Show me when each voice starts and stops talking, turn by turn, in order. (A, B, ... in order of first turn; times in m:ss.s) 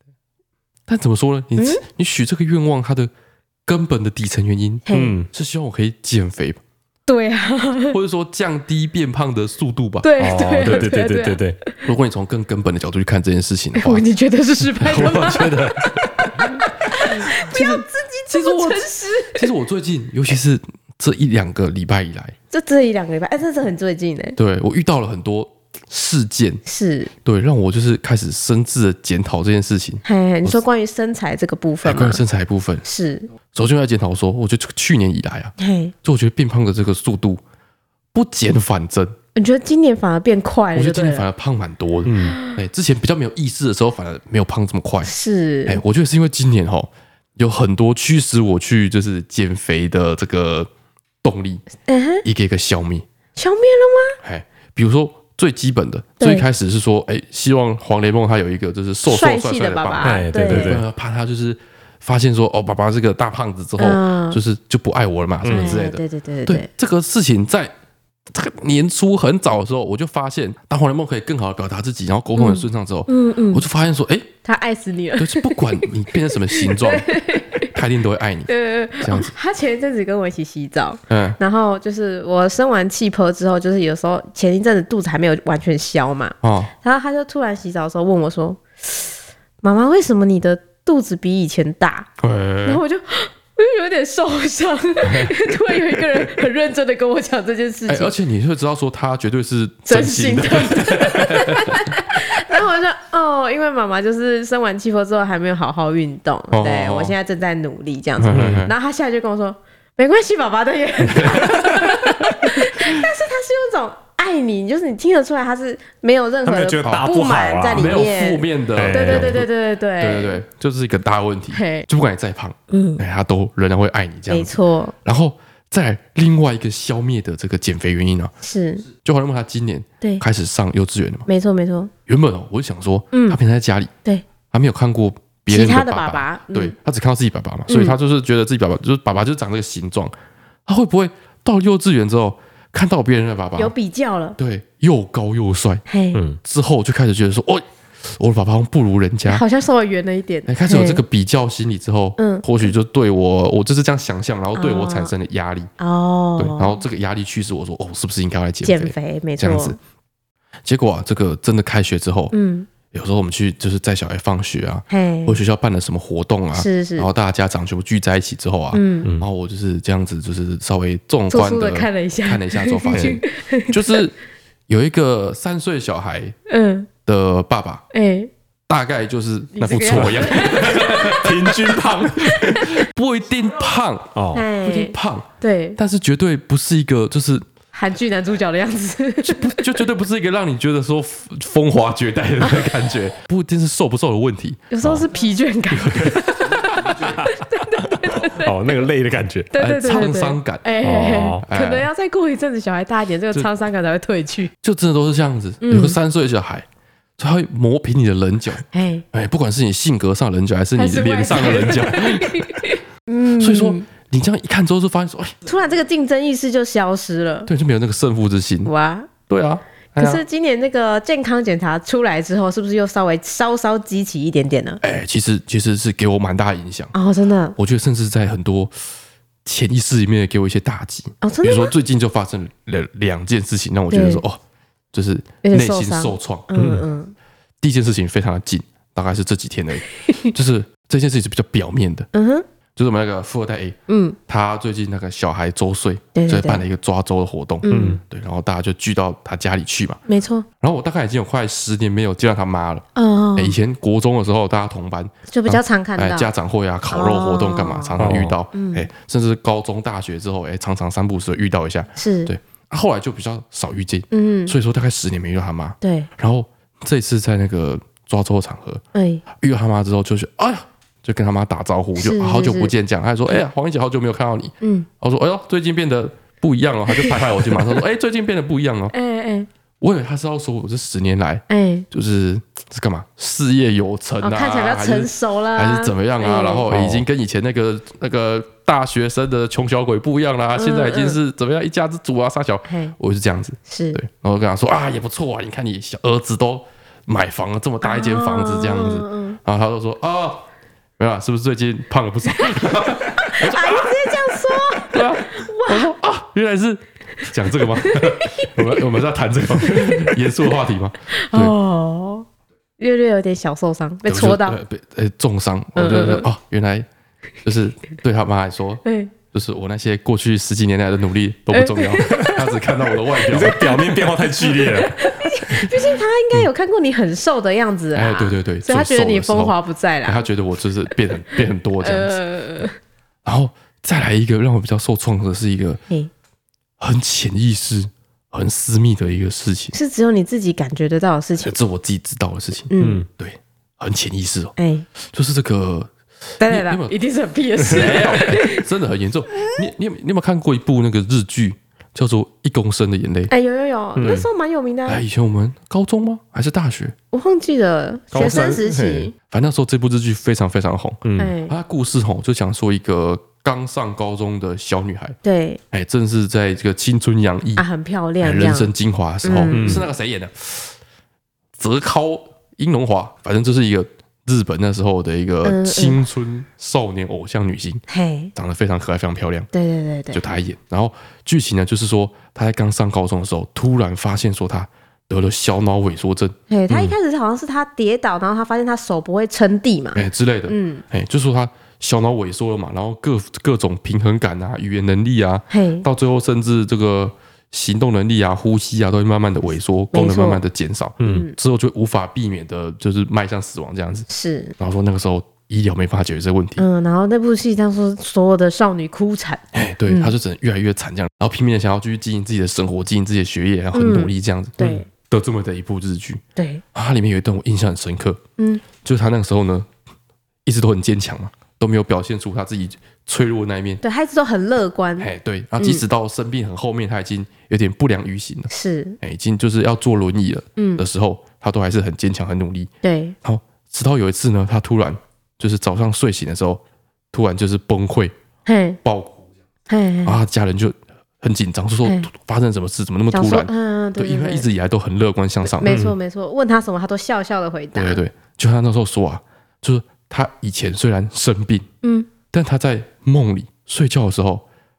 0:00.9-0:03.1 A
0:01.6-0:01.8 B
0:03.7-0:06.6 A
0:04.9-0:05.2 B
0:04.9-0:05.3 C
0:07.1-0:08.0 B
0:07.9-0:10.9 A
0:10.0-0:11.8 B
0:10.2-0:11.6 C
0:11.8-0:14.1 A
0:13.8-0:19.5 B
0:14.8-0:22.4 A
0:15.2-0:15.7 C
0:22.5-0:24.4 B
0:24.4-0:26.6 A
0:26.6-0:27.1 B
0:27.2-0:30.6 A
0:30.0-0:32.2 B
0:31.8-0:32.8 A
0:32.8-0:33.3 B
0:33.5-0:35.5 A
0:35.6-0:35.9 B
0:36.0-0:37.4 A
0:38.1-0:39.2 A
0:39.4-0:41.3 B
0:40.8-0:45.1 A
0:42.1-0:42.4 C
0:45.0-0:45.8 B
0:45.7-0:50.7 A
0:51.2-0:51.6 A
0:51.8-0:52.2 B
0:52.2-0:53.1 A
0:53.4-0:54.2 B
0:54.2-1:07.7 A
0:56.2-0:56.5 B
0:59.0-1:00.8 B
1:00.0-1:00.8 C
1:03.8-1:04.4 B
1:05.4-1:05.8 C
1:05.5-1:06.7 B
1:08.3-1:14.3 A
1:12.4-1:13.6 B
1:14.4-1:15.9 B
1:15.2-1:19.3 A
1:16.5-1:17.8 B
1:18.5-1:32.1 B
1:21.1-1:21.4 A
1:26.4-1:26.7 A
1:32.2-1:32.8 A
1:32.6-1:38.1 B
1:35.0-1:35.4 A
1:37.9-1:41.9 A
1:39.9-2:00.4 B
1:46.5-1:47.2 A
1:48.2-1:48.7 A
1:48.3-1:48.7 C
1:51.1-1:51.8 A
1:56.4-1:58.1 C
1:56.8-1:57.1 A
1:57.7-1:59.5 A
1:58.8-1:59.4 C
2:00.0-2:08.3 A
2:01.5-2:01.9 B
2:02.7-2:03.0 B
2:04.3-2:04.9 B
2:08.4-2:08.8 B
2:08.9-2:11.3 A
2:11.3-2:11.9 B
2:12.1-2:13.9 A
2:13.1-2:13.4 B
2:14.5-2:20.1 A
2:15.5-2:16.8 B
2:17.7-2:18.0 B
2:20.7-2:23.7 A
2:23.6-2:24.4 B
2:24.4-2:25.8 A
2:25.9-2:26.2 B
2:26.1-2:26.4 C
2:26.4-2:29.4 A
2:29.3-2:31.0 B
2:30.5-2:35.7 A
2:32.2-2:32.5 B
2:34.6-2:35.1 B
2:35.8-2:36.8 B
2:36.4-2:39.8 A
2:38.6-2:39.8 B
2:40.6-2:42.3 A
2:42.3-2:42.7 B
2:42.9-2:54.2 A
2:44.9-2:45.4 B
2:46.5-2:47.1 B
2:48.7-2:49.1 B
2:51.3-2:54.0 B
2:52.9-2:53.2 C
2:54.7-2:56.4 A
2:56.5-2:56.9 B
2:57.1-2:57.8 A
2:57.9-2:58.3 B
2:58.7-3:07.4 A
2:59.5-3:02.8 B
2:59.7-3:02.6 C
3:04.2-3:04.4 C
3:04.3-3:05.8 B
3:07.7-3:09.7 B
3:09.2-3:15.1 A
3:12.4-3:12.7 B
3:14.7-3:18.8 B
3:16.0-3:17.3 A
3:18.0-3:19.5 C
3:19.5-3:24.5 B
3:19.6-3:21.9 A
3:20.8-3:21.4 C
3:24.6-3:26.6 A
3:25.6-3:26.0 B
3:27.2-3:32.7 A
3:28.7-3:29.0 B
3:30.8-3:33.9 B
3:33.4-3:35.4 A
3:35.4-3:37.5 B
3:37.5-3:38.7 A
3:38.6-3:39.1 B
3:39.3-3:40.2 A
3:40.0-3:44.8 B
3:44.8-3:46.9 A
3:46.9-3:47.6 B
3:47.6-3:48.8 A
3:49.4-3:54.4 A
3:51.2-3:51.7 B
3:53.9-3:54.2 B
3:54.9-3:56.5 A
3:55.4-3:57.1 B
3:56.6-3:56.8 C
3:57.6-4:02.1 A
4:00.0-4:00.3 B
4:02.1-4:02.4 B
4:02.8-4:10.0 A
4:03.9-4:04.2 B
4:06.1-4:06.6 B
4:07.6-4:08.0 B
4:07.7-4:08.0 C
4:10.1-4:10.5 B
4:10.6-4:38.9 A
4:13.0-4:13.6 B
4:15.3-4:16.3 B
4:16.9-4:18.9 B
4:18.0-4:18.4 C
4:22.0-4:22.3 B
4:24.1-4:24.6 B
4:25.8-4:26.1 B
4:29.0-4:29.2 B
4:32.0-4:32.7 B
4:34.6-4:34.9 B
4:36.9-4:37.6 B
4:38.9-4:39.5 B
4:39.8-5:00.5 A
4:41.5-4:41.9 B
4:44.2-4:46.7 B
4:46.7-4:47.0 C
4:50.6-4:51.2 B
4:52.7-4:53.0 B
4:53.7-4:54.0 B
4:57.8-4:59.4 B
5:01.0-5:04.2 A
5:03.2-5:05.9 B
5:04.8-5:11.6 A
5:07.8-5:08.6 B
5:09.6-5:10.1 B
5:11.1-5:12.3 B
5:12.8-5:14.6 B
5:14.1-5:16.9 A
5:15.8-5:16.3 B
5:17.4-5:23.8 A
5:18.8-5:19.1 B
5:21.5-5:22.5 B
5:23.3-5:25.0 C
5:24.5-5:30.2 B
5:27.9-5:32.2 A
5:31.8-5:32.8 B
5:33.2-5:35.8 A
5:36.8-5:39.8 A
5:39.7-5:41.6 B
5:41.4-5:47.0 A
5:42.7-5:43.0 B
5:42.8-5:43.1 C
5:44.6-5:44.9 B
5:46.4-5:48.6 B
5:47.6-5:53.3 A
5:53.3-5:55.0 B
5:54.0-5:54.3 C
5:54.9-5:56.9 A
5:57.1-5:59.1 B
5:58.1-5:59.1 C
5:58.1-5:58.6 A
5:59.3-6:05.2 A
6:01.0-6:01.3 C
6:01.2-6:01.5 B
6:05.2-6:05.6 B
6:05.7-6:07.6 A
6:07.6-6:08.7 B
6:08.2-6:10.8 A
6:09.2-6:09.8 B
6:09.5-6:09.9 C
6:11.6-6:17.8 A
6:15.4-6:16.0 B
6:17.9-6:18.3 B
6:18.4-6:19.5 A
6:19.5-6:20.2 B
6:20.1-6:27.0 A
6:26.5-6:30.8 B
6:30.0-6:46.6 A
6:35.5-6:35.9 B
6:39.9-6:40.4 B
6:41.0-6:41.3 C
6:41.0-6:41.3 B
6:44.1-6:44.6 B
6:46.6-6:50.1 B
6:49.5-6:56.2 A
6:53.7-6:54.9 B
6:56.4-6:56.6 B
6:56.7-6:58.2 A
6:58.4-6:58.6 B
6:58.8-6:59.7 A
7:00.5-7:03.8 A
7:03.8-7:05.8 B
7:05.0-7:08.5 A
7:08.5-7:09.0 B
7:09.0-7:12.7 A
7:10.6-7:10.8 B
7:12.8-7:13.2 B
7:13.2-7:18.1 A
7:18.5-7:18.8 B
7:18.8-7:19.2 A
7:19.7-7:20.2 B
7:20.0-7:25.7 A
7:23.1-7:24.5 B
7:25.6-7:28.0 B
7:25.6-7:26.0 C
7:27.8-7:31.7 A
7:31.8-7:32.1 B
7:32.3-7:34.4 A